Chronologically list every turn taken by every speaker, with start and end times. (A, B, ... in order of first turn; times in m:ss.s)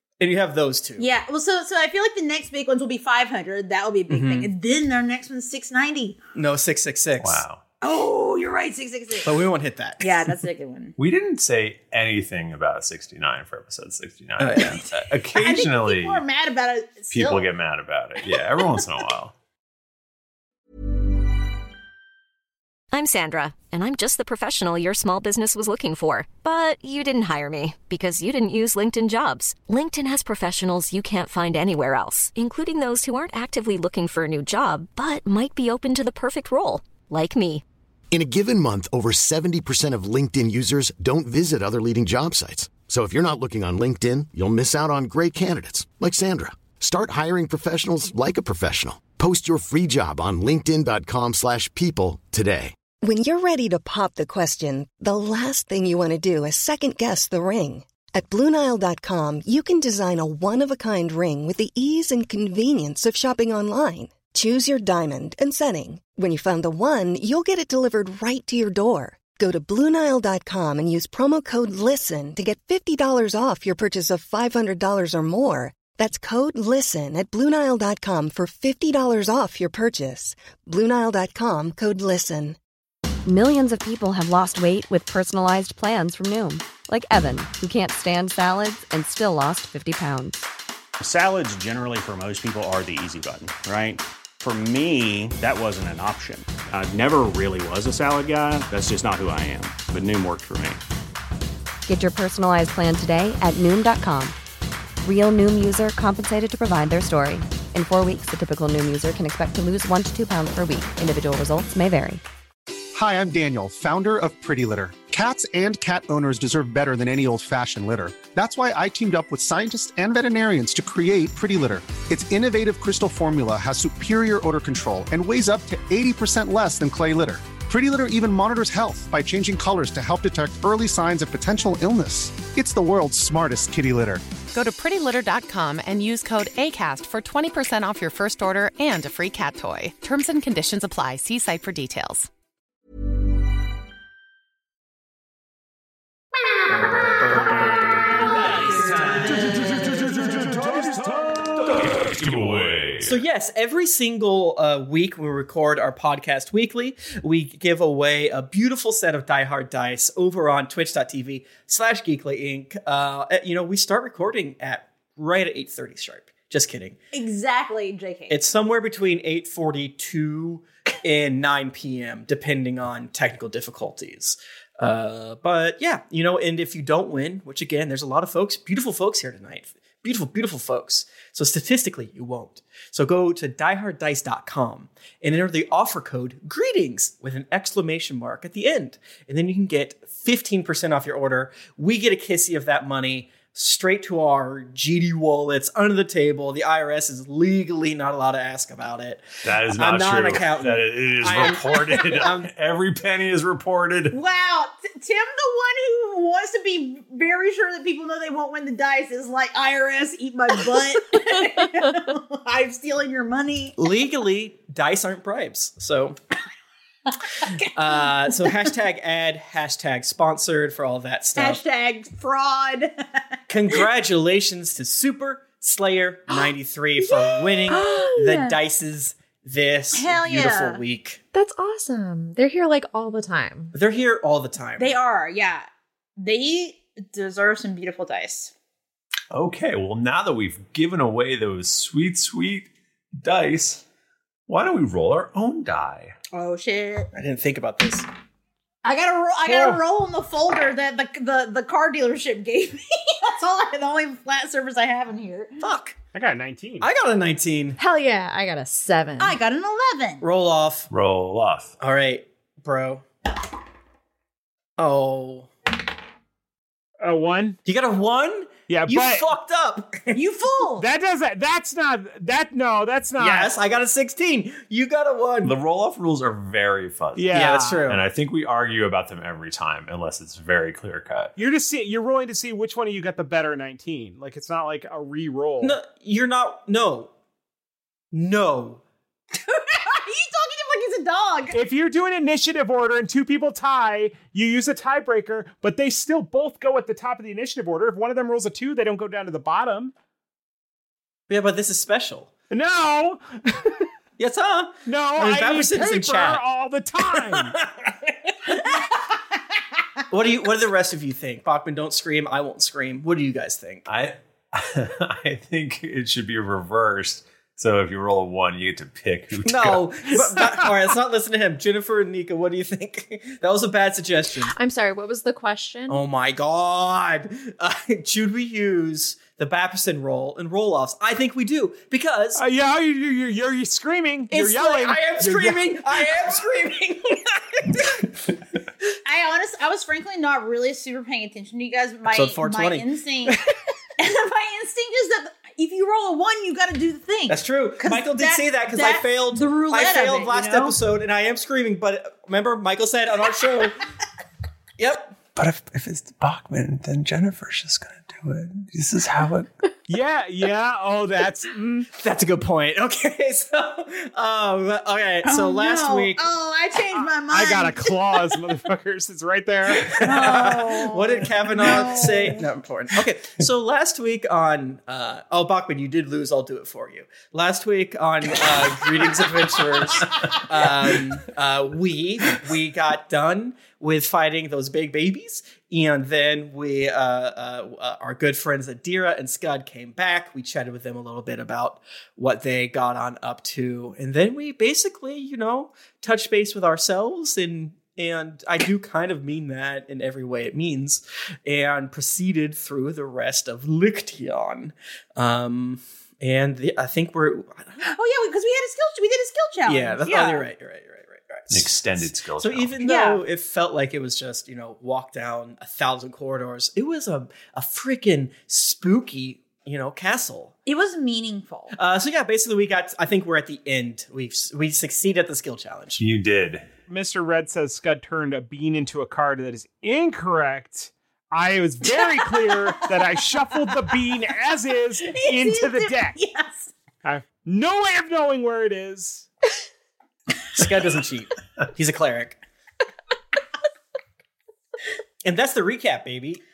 0:00.2-0:01.1 A
0:01.0-0:06.2 B
0:04.1-0:04.5 A
0:06.4-0:07.4 A
0:07.2-0:07.6 C
0:07.8-0:09.5 B
0:09.2-0:10.4 A
0:10.0-0:11.0 B
0:11.0-0:16.2 C
0:14.4-0:14.8 A
0:15.3-0:17.5 B
0:17.1-0:19.3 C
0:22.9-0:37.6 D
0:38.1-0:52.7 E
0:53.0-1:22.6 F
1:23.2-1:30.4 G
1:31.0-1:40.8 H
1:41.9-1:44.4 G
1:45.0-1:52.2 G
1:52.9-2:14.2 I
2:14.5-2:22.3 J
2:27.3-2:27.6 A
2:31.6-2:33.2 C
2:33.0-2:47.0 A
2:47.1-2:48.4 B
2:48.3-3:22.5 A
3:19.4-3:24.2 C
3:24.1-3:33.8 B
3:33.8-3:36.2 A
3:37.5-3:38.7 B
3:37.8-3:41.6 A
3:41.4-3:43.8 B
3:43.5-3:51.2 A
3:46.3-3:48.6 B
3:47.8-3:48.1 K
3:49.9-3:50.8 B
3:51.3-3:53.8 K
3:53.7-3:54.9 A
3:54.8-3:58.5 B
3:59.3-4:03.8 C
4:04.5-4:06.2 C
4:06.3-4:07.1 B
4:07.1-4:08.1 A
4:08.8-4:15.6 B
4:09.5-4:09.8 L
4:15.6-4:16.0 A
4:16.1-4:16.9 L
4:16.8-4:17.8 A
4:17.8-4:19.4 K
4:19.2-4:20.2 B
4:20.2-4:20.9 A
4:20.9-4:21.7 C
4:21.8-4:23.1 A
4:24.8-4:25.5 A
4:27.0-4:27.6 L
4:27.7-4:30.2 A
4:28.7-4:29.3 L
4:30.1-4:30.9 B
4:30.8-4:33.6 L
4:33.2-4:35.6 A
4:35.4-4:41.4 C
4:37.2-4:37.9 L
4:37.3-4:38.0 A
4:41.4-4:45.8 L
4:45.6-4:47.1 A
4:48.1-4:48.8 A
4:49.3-4:51.6 B
4:51.5-4:59.9 L
5:01.3-5:02.3 A
5:02.5-5:03.7 L
5:04.2-5:06.4 A
5:04.9-5:07.6 L
5:07.1-5:07.5 A
5:10.1-5:13.8 A
5:13.9-5:20.2 C
5:19.4-5:24.5 A
5:24.5-5:26.0 K
5:25.9-5:32.4 A
5:32.4-5:35.8 L
5:34.3-5:37.8 A
5:39.0-5:43.4 B
5:42.1-5:42.9 A
5:44.0-5:50.8 B
5:47.3-5:53.8 A
5:54.8-5:55.2 A
5:55.4-5:59.5 C
5:59.9-6:01.9 L
6:01.9-6:06.3 A
6:05.2-6:08.5 B
6:07.0-6:10.2 L
6:09.9-6:12.5 B
6:10.0-6:47.8 A
6:47.8-6:50.5 B
6:49.7-6:51.8 A
6:51.5-6:52.8 C
6:52.4-7:00.5 A
6:52.8-6:53.2 B
7:00.7-7:01.8 B
7:01.8-7:06.0 A
7:06.0-7:06.7 C
7:06.9-7:16.2 L
7:11.8-7:14.0 B
7:15.0-7:16.7 B
7:17.0-7:19.3 L
7:20.5-7:22.4 A
7:25.2-7:26.4 A